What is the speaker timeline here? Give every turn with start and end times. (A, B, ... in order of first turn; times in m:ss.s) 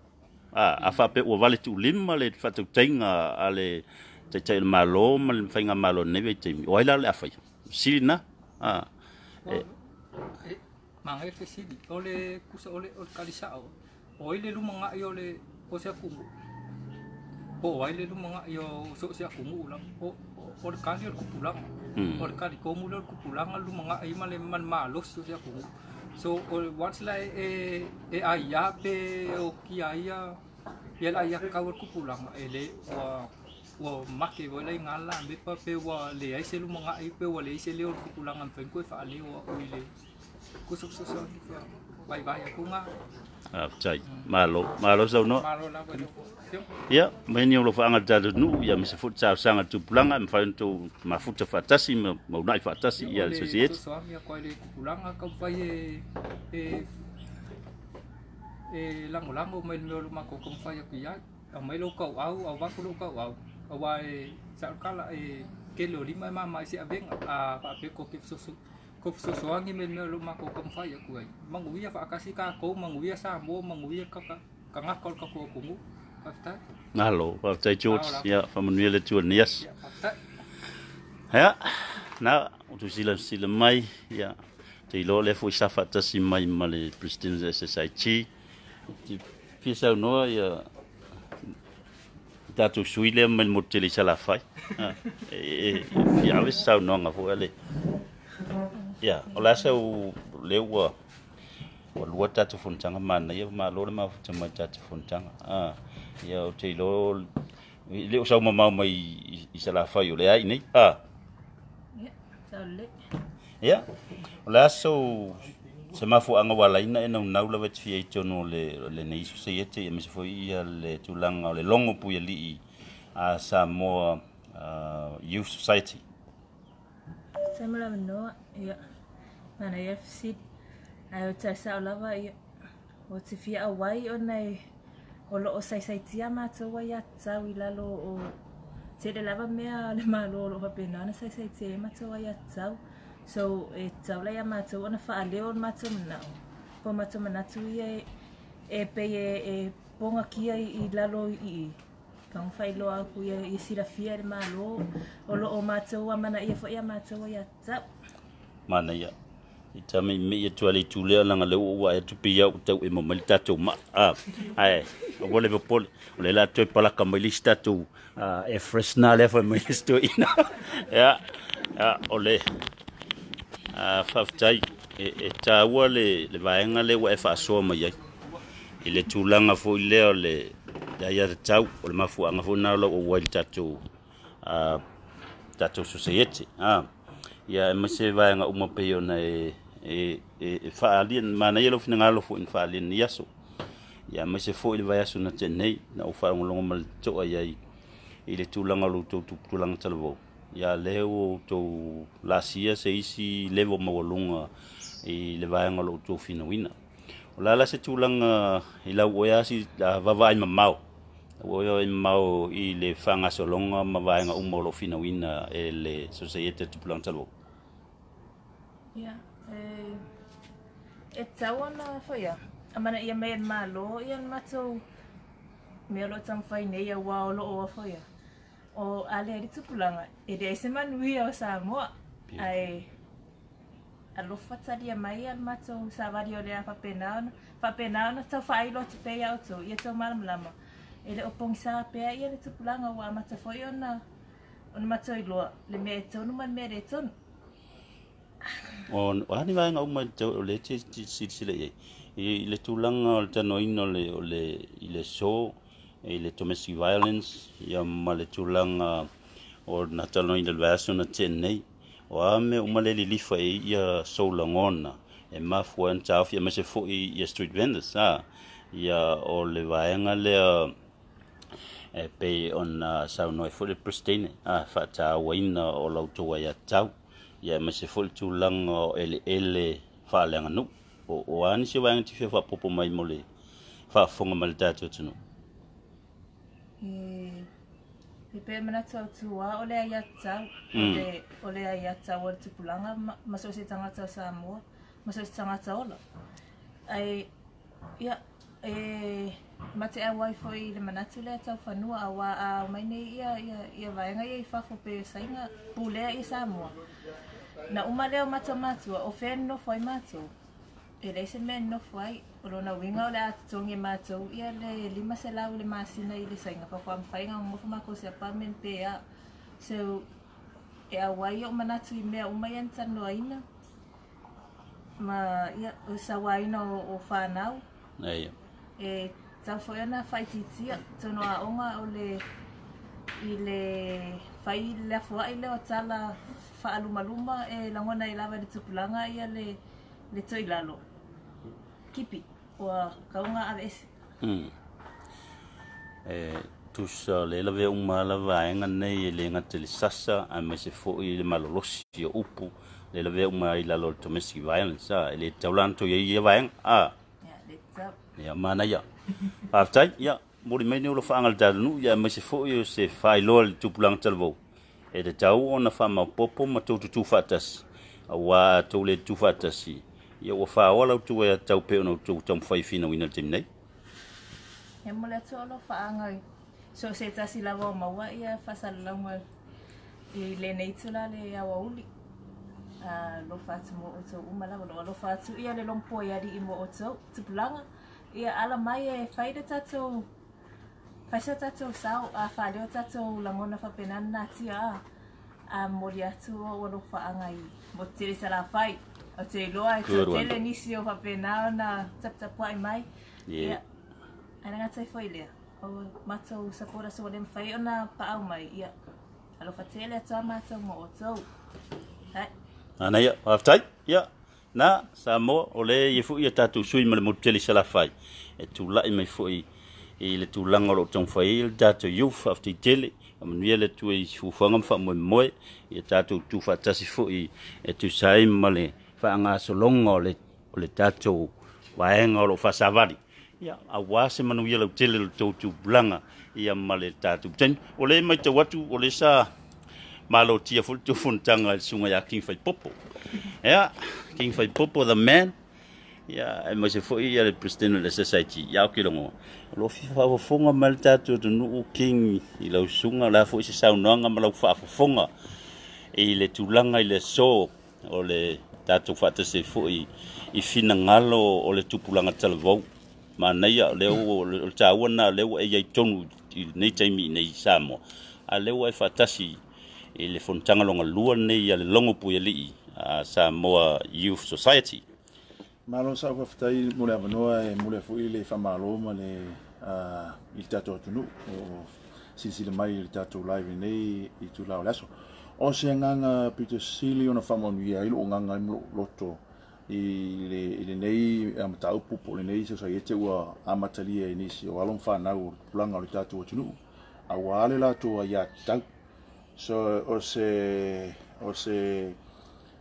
0:00.5-0:08.9 A
0:09.4-0:09.8 B
0:10.4-0:16.3 B
0:17.6-0:30.4 B
0:22.0-0:22.4 A
0:31.0-0:39.9 B
0:40.7-0:42.9 B
0:43.5-0:46.0 A
0:44.0-0:44.3 B
0:45.3-0:46.8 B
0:46.9-0:53.8 A
0:53.0-0:56.9 B
0:58.7-1:16.6 B
1:16.9-1:19.6 A
1:17.9-1:18.3 B
1:19.6-1:20.2 B
1:21.3-1:24.4 A
1:24.9-1:28.3 A
1:28.9-1:30.6 A
1:32.5-1:37.5 A
1:39.0-1:40.9 A
1:42.0-1:47.3 A
1:47.9-1:51.0 A
1:51.9-1:52.9 C
1:53.6-1:53.8 A
1:54.4-2:02.6 A
2:03.2-2:06.0 A
2:07.5-2:08.8 C
2:09.6-2:10.4 C
2:11.1-2:12.3 C
2:13.1-2:14.6 C
2:15.3-2:18.4 C
2:19.0-2:28.0 C
2:28.7-2:31.7 C
2:32.3-2:37.8 C
2:38.7-2:39.1 A
2:39.7-2:52.4 A
2:53.7-2:58.0 A
2:58.8-3:03.8 A
3:04.4-3:04.8 A
3:05.6-3:06.9 A
3:07.5-3:13.3 A
3:14.1-3:17.6 A
3:18.3-3:24.5 A
3:25.0-3:26.7 A
3:27.4-3:30.8 A
3:31.4-3:37.3 A
3:38.9-3:40.0 C
3:41.1-3:44.8 C
3:45.9-3:48.0 C
3:48.8-3:52.8 C
3:54.2-4:00.5 C
4:01.0-4:04.0 C
4:04.7-4:07.1 C
4:08.9-4:19.1 A
4:19.7-4:30.7 A
4:31.9-4:43.2 A
4:43.9-4:45.2 A
4:46.8-4:47.5 C
4:48.3-4:56.0 C
4:50.7-4:51.1 A
4:56.9-4:57.3 C
4:58.0-5:06.8 C
5:07.7-5:10.3 C
5:11.0-5:19.0 C
5:19.6-5:20.0 C
5:20.9-5:23.4 C
5:25.0-5:27.6 C
5:28.0-5:28.3 A
5:28.8-5:32.2 C
5:33.2-5:39.5 C
5:40.1-5:40.8 C
5:41.9-5:43.9 C
5:44.2-5:44.5 A
5:46.0-5:56.9 A
5:57.2-5:57.9 C
5:58.2-5:58.8 A
5:59.5-6:04.4 A
6:04.9-6:13.5 A
6:14.8-6:16.2 C
6:16.7-6:19.2 C
6:20.1-6:21.8 C
6:22.8-6:30.1 C
6:31.1-6:34.8 C
6:35.5-6:42.8 C
6:39.8-6:40.4 A
6:43.3-6:43.6 A
6:44.4-6:48.7 C
6:49.4-6:51.2 C
6:52.8-6:59.5 A
7:00.0-7:19.3 A
7:20.1-7:22.8 A
7:23.4-7:25.4 A
7:26.1-7:35.1 A
7:35.9-7:42.6 A
7:43.2-7:49.4 A
7:50.0-7:54.8 A
7:55.7-8:16.6 D
8:17.1-8:18.6 D
8:19.4-8:22.0 D